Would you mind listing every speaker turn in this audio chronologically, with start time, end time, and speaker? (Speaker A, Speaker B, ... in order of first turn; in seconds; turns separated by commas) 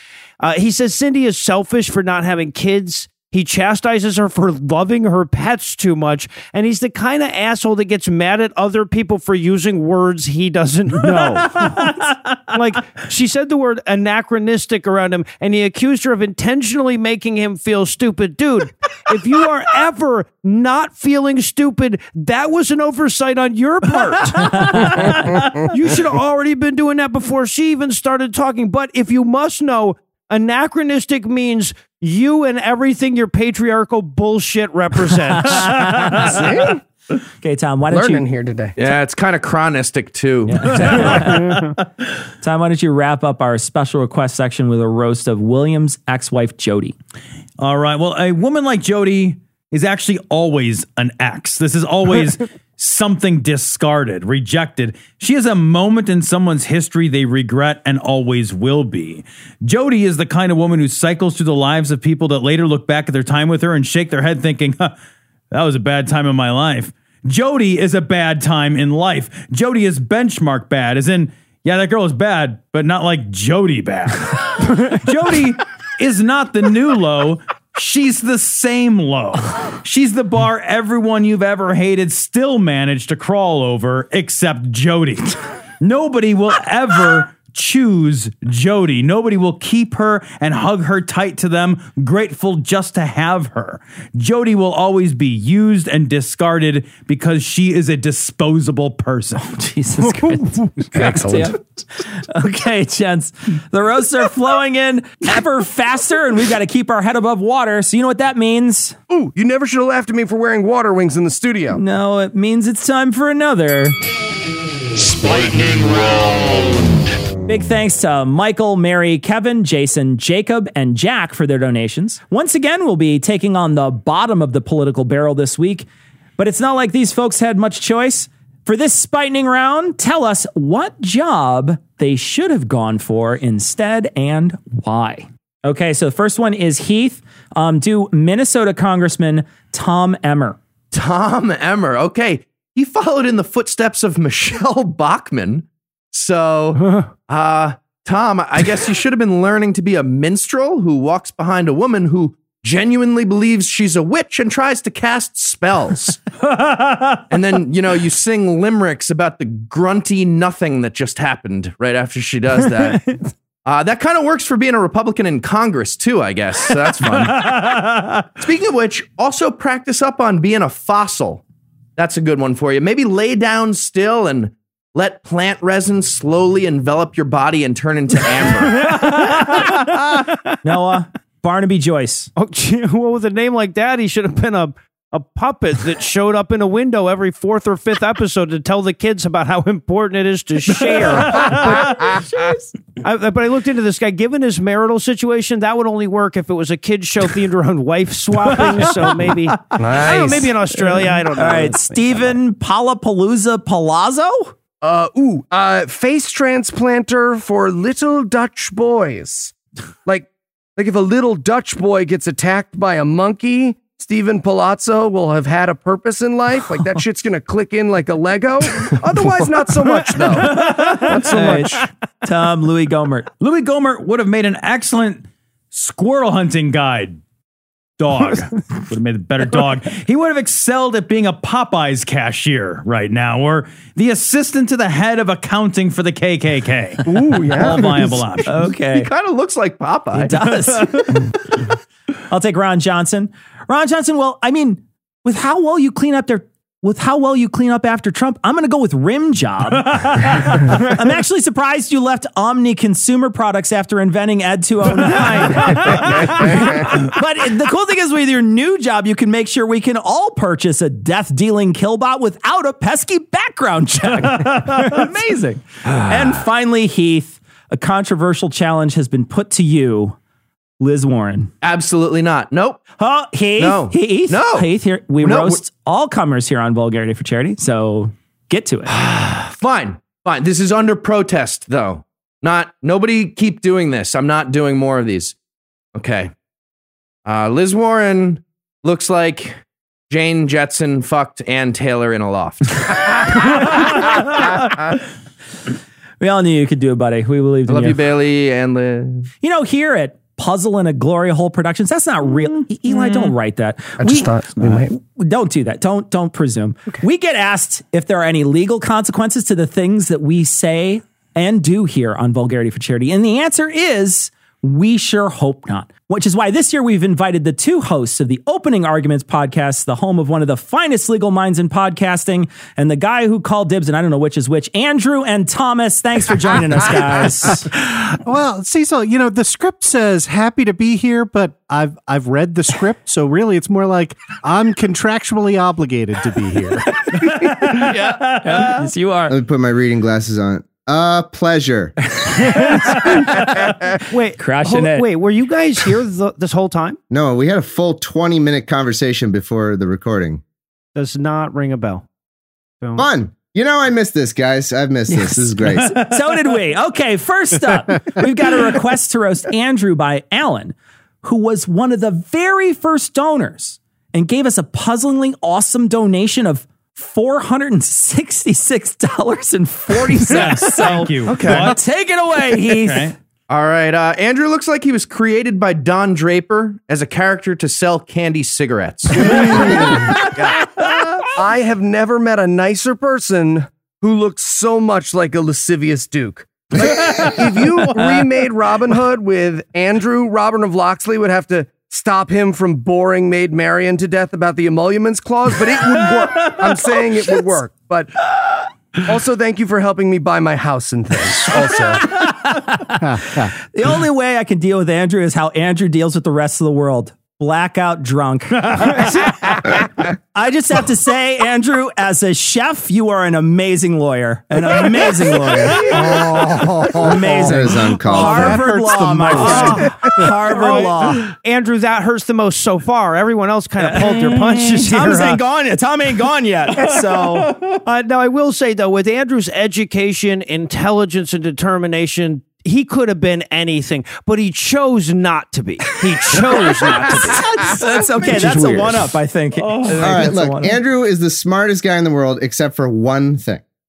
Speaker A: 0.4-35.9, Speaker B: 11.6-11.9, Speaker C: 35.4-36.4, Speaker D: 36.2-36.8, Speaker C: 37.4-38.2, Speaker D: 37.9-38.8, Speaker E: 38.8-41.4, Speaker C: 40.5-41.6, Speaker B: 41.5-41.8, Speaker C: 42.4-47.0, Speaker B: 47.6-64.9, Speaker B: 65.5-99.5, Speaker C: 99.5-101.6, Speaker D: 100.9-101.5, Speaker C: 102.2-109.0, Speaker D: 109.1-111.8, Speaker C: 111.7-114.0, Speaker D: 115.1-116.2, Speaker C: 117.5-125.8, Speaker C: 126.4-140.6, Speaker E: 140.9-156.2, Speaker B: 156.7-157.0, Speaker E: 157.3-167.7, Speaker B: 167.2-168.1, Speaker E: 168.4-171.4, Speaker E: 172.0-179.0, Speaker B: 179.0-179.3, Speaker C: 180.6-182.3, Speaker A: 182.3-192.2, Speaker B: 190.9-191.8, Speaker A: 193.0-202.4, Speaker B: 198.7-199.5, Speaker D: 199.8-200.5, Speaker C: 200.8-204.5, Speaker D: 204.8-221.9, Speaker B: 220.3-221.3, Speaker C: 220.6-223.3, Speaker B: 223.4-227.2, Speaker B: 228.0-238.7, Speaker D: 237.1-238.2, Speaker C: 237.6-239.1, Speaker E: 238.5-240.5, Speaker C: 240.1-241.2, Speaker B: 240.8-241.2, Speaker C: 242.3-270.2, Speaker B: 249.9-250.3, Speaker B: 255.6-256.4, Speaker B: 264.6-265.0, Speaker C: 270.8-271.5, Speaker E: 271.6-272.8, Speaker C: 273.0-278.9, Speaker E: 273.6-275.6, Speaker E: 278.9-285.3, Speaker E: 285.9-286.3, Speaker E: 287.2-293.4, Speaker C: 296.2-298.0, Speaker E: 297.7-299.3, Speaker C: 299.4-327.7, Speaker D: 304.0-304.9, Speaker F: 327.7-336.9, Speaker B: 337.1-338.8, Speaker C: 337.4-339.3, Speaker G: 339.3-341.9, Speaker B: 342.9-343.2, Speaker A: 344.1-347.0, Speaker C: 344.4-345.1, Speaker G: 347.1-350.4, Speaker A: 350.9-352.0, Speaker A: 352.8-353.1, Speaker G: 352.9-355.9, Speaker C: 355.1-373.1, Speaker B: 355.8-356.1, Speaker B: 370.2-371.8, Speaker E: 371.2-371.7, Speaker B: 372.7-373.1, Speaker E: 373.5-379.9, Speaker D: 379.6-398.2, Speaker B: 396.5-397.0, Speaker D: 399.0-402.1, Speaker C: 402.2-416.1, Speaker F: 403.0-403.5, Speaker G: 415.9-418.6, Speaker F: 416.9-420.3, Speaker C: 417.0-421.2, Speaker A: 419.4-425.4, Speaker C: 423.9-427.5, Speaker B: 424.1-424.4, Speaker A: 427.8-437.7, Speaker C: 437.4-440.8, Speaker G: 438.3-438.9, Speaker B: 439.6-440.2, Speaker G: 440.0-443.6